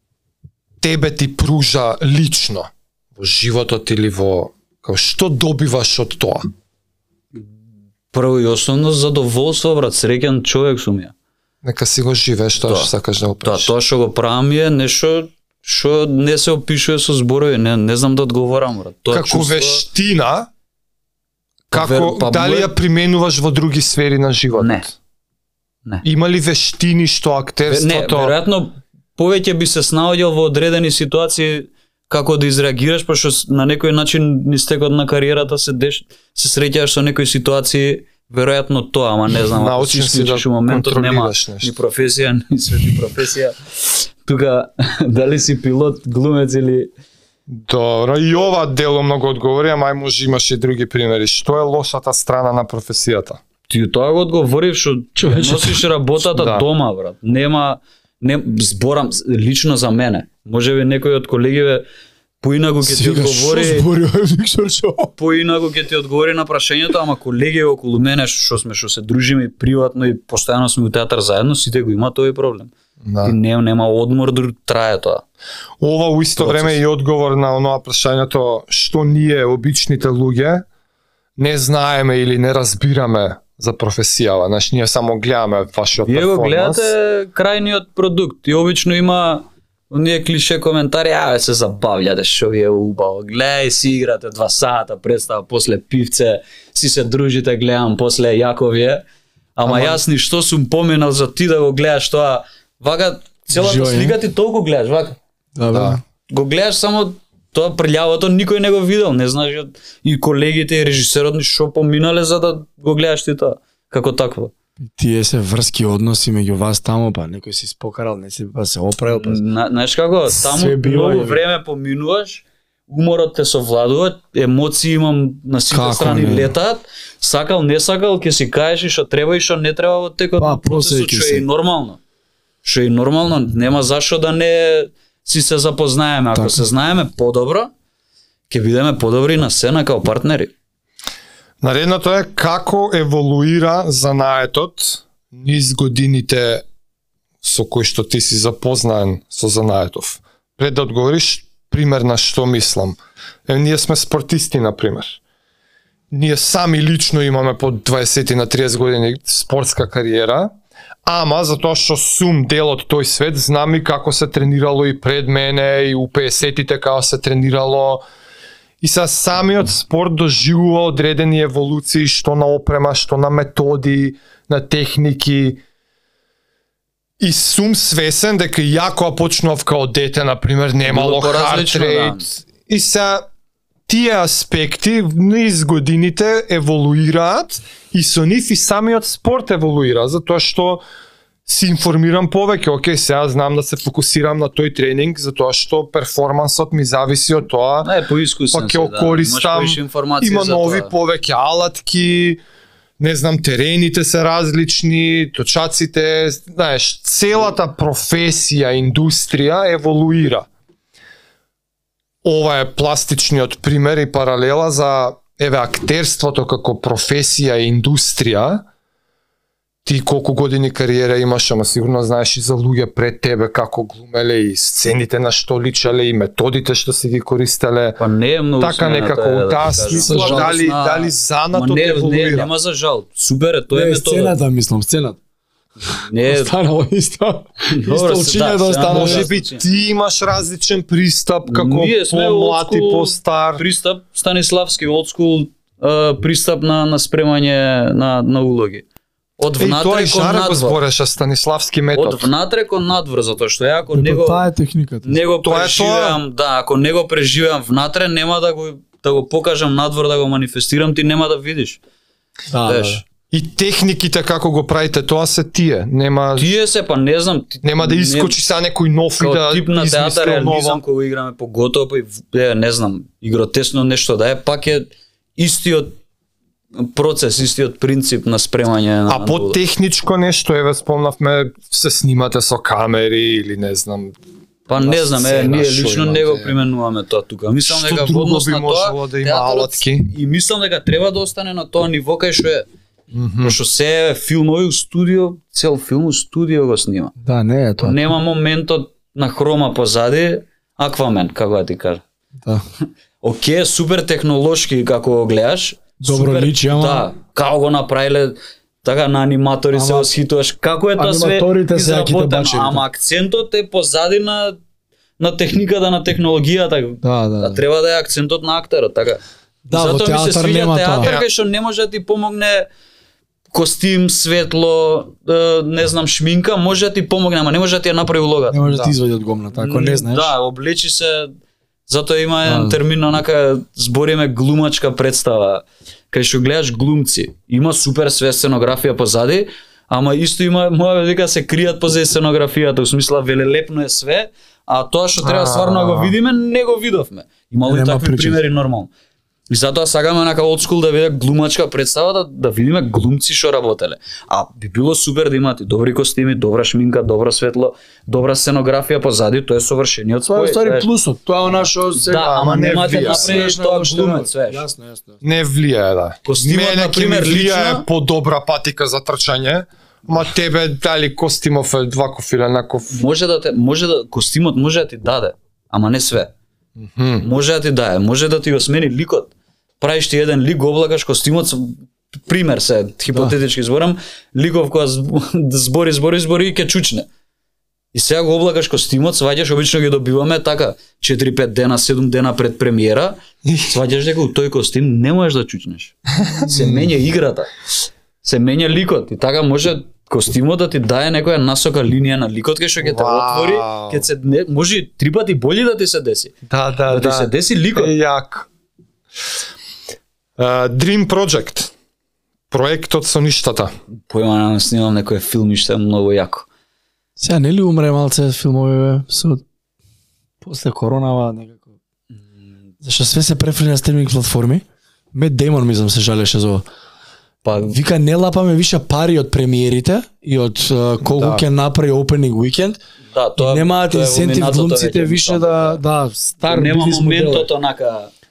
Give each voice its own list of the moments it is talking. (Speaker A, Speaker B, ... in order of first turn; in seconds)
Speaker A: 0.8-6.5, 11.6-13.7, 19.1-20.5, 21.7-24.9, 26.0-28.3, 39.3-41.7, 47.5-53.4, 56.2-56.6, 73.0-73.3, 75.8-80.6, 81.4-86.9, 105.7-106.0, 141.6-146.6, 147.4-155.2, 156.1-160.5, 161.1-168.0, 168.8-175.6, 177.2-183.2, 183.9-190.8, 191.4-197.9, 198.5-202.4, 203.0-210.5, 212.2-218.6, 219.8-228.0, 228.6-232.5, 238.8-243.6, 249.6-252.3, 255.4-256.2, 263.3-266.5, 267.6-270.8, 279.1-284.1, 284.7-286.6, 287.6-290.1, 293.1-293.6, 321.0-321.2, 345.2-346.1, 362.1-363.4, 365.2-373.0, 376.8-377.2, 393.4-393.8, 396.3-396.9, 402.8-404.1, 406.5-408.5, 410.4-411.7, 412.5-413.7, 431.1-431.4
Speaker B: 8.1-11.1, 12.6-12.9, 13.4-19.9, 21.7-22.7, 24.6-24.9, 27.7-46.9, 53.7-61.8, 62.4-63.9, 65.2-72.7, 73.2-75.2, 76.4-76.8, 86.0-99.0, 99.5-105.2, 106.3-114.5, 119.1-132.0, 132.6-137.7, 138.5-140.5, 180.8-182.3, 197.8-200.9, 228.0-234.4, 235.8-236.5, 237.7-239.6, 241.5-248.8, 249.4-250.8, 251.9-254.4, 255.0-261.8, 262.6-263.0, 266.4-268.4, 269.2-276.0, 276.8-279.6, 284.7-292.6, 293.4-297.1, 297.8-302.0, 303.2-314.6, 315.2-322.7, 323.5-328.9, 329.5-331.3, 331.9-348.9, 349.5-360.9, 361.9-364.6, 366.2-367.9, 372.9-376.3, 377.2-387.1, 387.9-397.5, 398.2-406.3, 406.9-407.9, 414.1-416.5, 427.4-427.8, 433.1-435.8, 436.4-438.1
Speaker C: 55.1-55.8, 62.8-65.1, 103.5-104.2, 105.5-106.0, 114.9-119.4, 120.3-121.4, 125.7-126.5, 130.4-131.4, 136.3-136.6, 229.9-230.5, 233.7-235.2, 236.2-239.3, 253.9-255.1, 262.5-263.0, 297.2-298.1, 306.0-307.1, 309.7-310.1, 310.9-312.8, 317.0-317.6, 319.6-321.1, 328.5-330.3, 332.4-332.8, 347.6-348.4, 360.3-365.2, 417.2-419.4, 420.4-421.7, 422.8-426.6, 427.7-432.8, 433.4-437.5